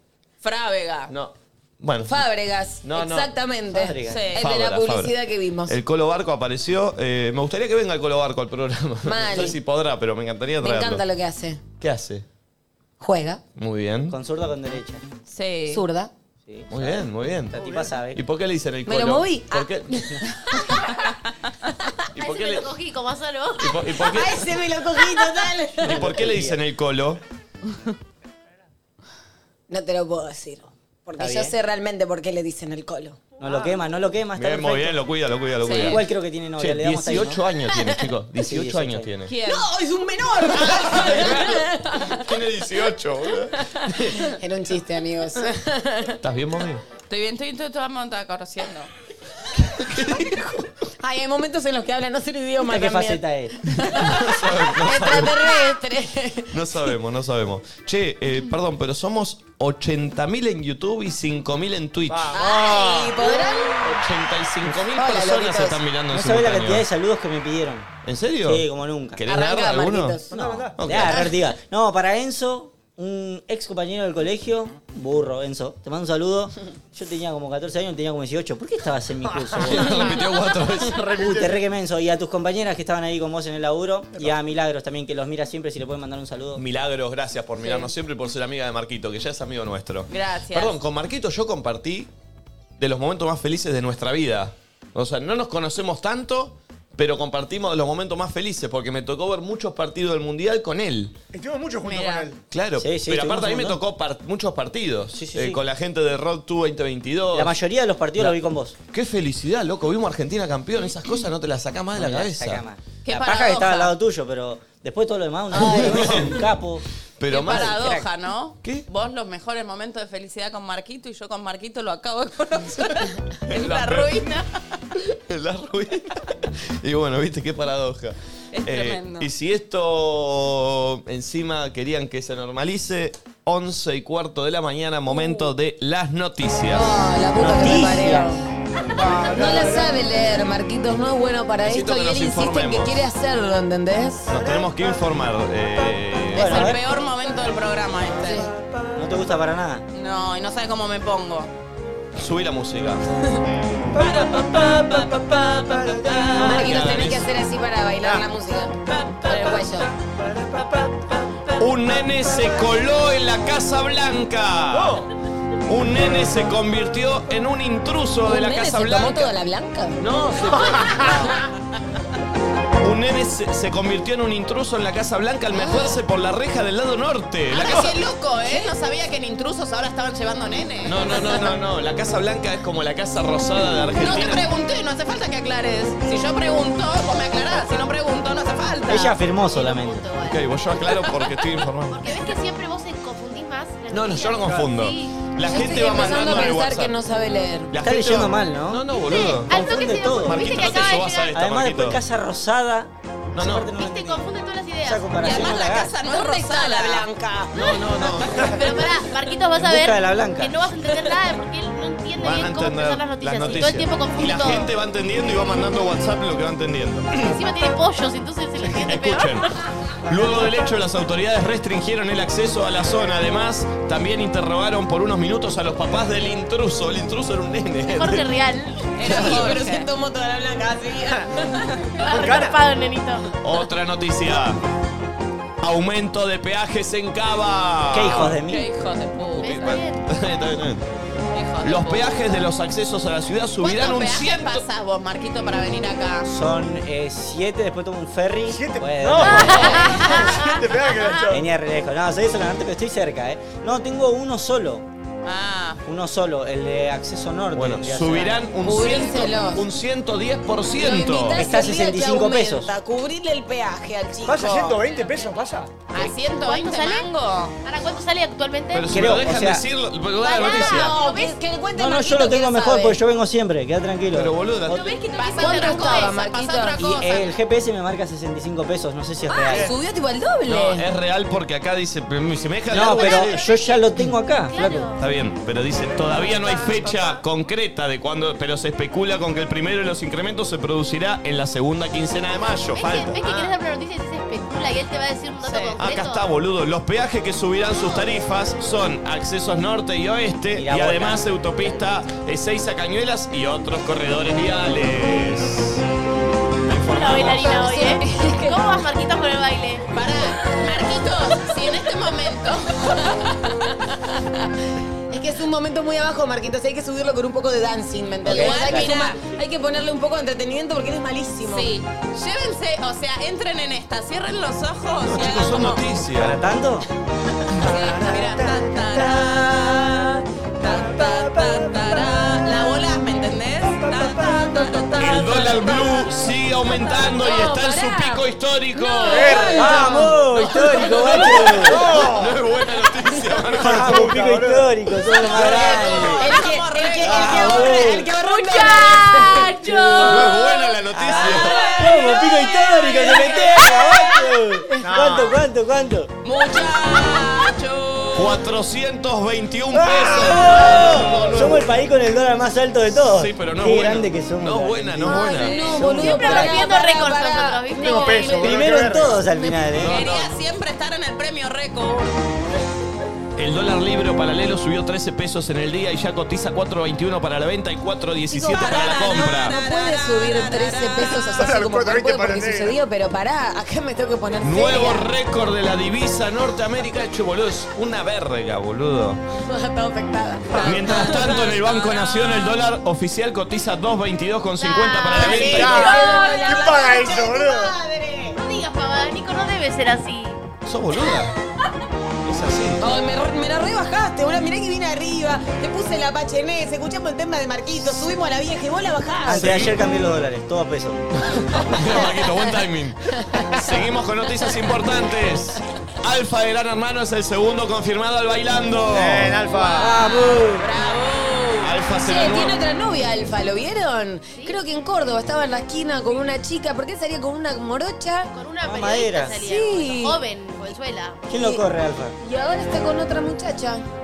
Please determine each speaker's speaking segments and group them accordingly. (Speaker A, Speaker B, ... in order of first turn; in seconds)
Speaker A: 0.4-1.1, 4.0-4.4, 15.3-15.8, 35.6-36.0, 39.3-39.6, 47.1-48.9, 87.6-87.9, 90.1-90.8, 101.8-102.3, 113.0-113.9, 117.3-124.4, 128.5-129.3, 146.3-148.5, 149.9-151.5, 154.0-156.3, 159.0-159.4, 177.5-181.3, 184.0-189.1, 205.2-207.1, 228.9-229.9, 238.5-239.8, 241.3-242.2, 243.6-246.3, 255.2-255.8, 265.9-267.6, 275.0-277.3, 293.2-293.5, 295.4-295.8, 309.9-313.5, 318.3-319.2, 321.4-325.8, 327.6-335.8, 345.4-350.4, 351.1-354.3, 356.2-358.4, 369.9-372.1, 378.5-381.4, 390.5-392.4, 395.1-396.3, 419.5-421.7
Speaker B: 1.1-2.2, 2.8-3.3, 4.4-5.1, 5.7-11.0, 11.8-12.2, 13.6-14.2, 16.7-20.1, 22.1-22.7, 23.6-24.4, 25.8-27.2, 34.4-36.0, 36.6-39.3, 40.5-44.3, 46.2-46.8, 49.6-50.7, 53.9-55.5, 56.5-62.4, 63.9-66.8, 68.0-70.2, 70.8-71.3, 79.6-81.4, 86.5-92.1, 92.8-101.1, 102.5-107.5, 108.9-112.6, 115.6-116.4, 117.2-118.0, 123.5-124.2, 125.3-137.0, 141.6-143.1, 144.3-146.8, 152.2-153.0, 156.3-157.3, 161.6-165.1, 165.7-169.3, 170.0-171.3, 172.8-177.9, 180.8-184.5, 190.2-192.0, 193.9-197.0, 197.7-202.0, 203.3-203.7, 207.5-208.6, 212.2-217.3, 218.6-219.5, 220.1-228.3, 233.4-234.6, 235.6-238.4, 239.4-240.8, 241.6-244.6, 257.5-261.4, 268.7-271.0, 274.1-274.9, 280.4-283.4, 285.0-293.2, 295.8-305.8, 306.7-307.6, 325.0-326.4, 335.0-339.9, 340.8-344.0, 350.0-351.8, 358.1-361.7, 362.9-365.8, 369.7-370.4, 373.4-379.6, 384.4-389.2, 390.6-395.9, 400.6-401.3, 402.2-402.8, 409.3-409.7, 411.2-413.0, 413.5-419.4, 421.6-422.6
Speaker C: 2.1-5.7, 9.0-9.6, 10.6-11.6, 13.0-13.4, 15.7-16.1, 18.9-21.0, 23.9-26.0, 29.7-33.2, 39.5-42.2, 44.2-46.2, 51.0-56.5, 62.3-64.0, 64.7-65.8, 69.3-70.3, 115.5-116.1, 136.7-138.4, 139.3-144.3, 156.3-159.9, 168.2-170.0, 175.6-175.9, 195.4-197.7, 206.0-208.3, 229.0-231.7, 258.6-259.6, 260.8-264.8, 270.4-273.0, 275.4-276.9, 279.5-280.8, 307.4-308.7, 315.1-321.7, 336.9-338.2, 338.8-340.0, 346.1-349.7, 365.0-368.9, 378.3-385.1, 389.4-391.4, 395.1-398.4, 402.8-409.6, 413.2-413.7, 422.0-428.3, 429.4-430.2, 431.3-431.6, 432.2-433.8
Speaker D: 3.7-4.2, 14.1-15.0, 16.4-18.2, 25.1-26.6, 31.2-31.5, 33.4-35.0, 35.8-37.4, 38.4-39.1, 52.6-53.6, 66.1-67.9, 68.4-69.2, 70.3-80.2, 81.2-86.6, 102.8-103.8, 105.1-105.6, 107.3-108.8, 111.9-116.8, 117.4-118.1, 137.4-138.3, 146.3-146.8, 148.9-149.8, 188.9-190.1, 197.8-205.9, 209.5-210.6, 237.9-238.7, 246.2-250.3, 251.3-254.8, 255.8-258.5, 261.3-262.7, 268.9-269.6, 271.8-274.9, 276.8-279.7, 282.7-284.9, 300.5-301.8, 318.2-319.0, 326.2-326.9, 339.5-341.9, 343.6-346.3, 347.0-348.1, 349.6-350.3, 350.9-356.1, 359.7-366.6, 368.4-370.0, 409.2-411.0, 419.8-420.7, 428.6-429.4, 431.3-432.1
Speaker E: 17.6-17.9, 62.1-64.0, 70.3-70.8, 79.3-79.8, 80.8-81.6, 101.3-102.4, 138.9-140.1, 154.0-156.4, 160.2-161.6, 164.7-165.1, 170.5-171.3, 232.1-232.6, 248.5-251.4, 264.2-265.8, 327.8-328.2, 333.8-334.6, 339.1-342.4, 343.6-344.7, 345.4-346.1, 354.8-355.4, 367.7-369.2, 381.3-382.8, 395.2-397.7, 418.9-419.9
Speaker F: 22.1-24.0, 189.5-190.5, 191.9-195.1, 199.1-201.3, 203.8-205.8, 208.4-214.7, 217.2-219.5, 227.9-228.9, 231.9-233.3, 239.4-240.0, 249.3-250.6, 266.0-267.1, 267.6-269.1, 270.2-271.4, 274.7-276.1, 283.4-283.8, 284.4-285.0, 292.7-296.3, 306.9-309.9, 366.1-368.4, 394.6-395.4, 398.3-400.4, 424.3-424.6, 428.3-431.3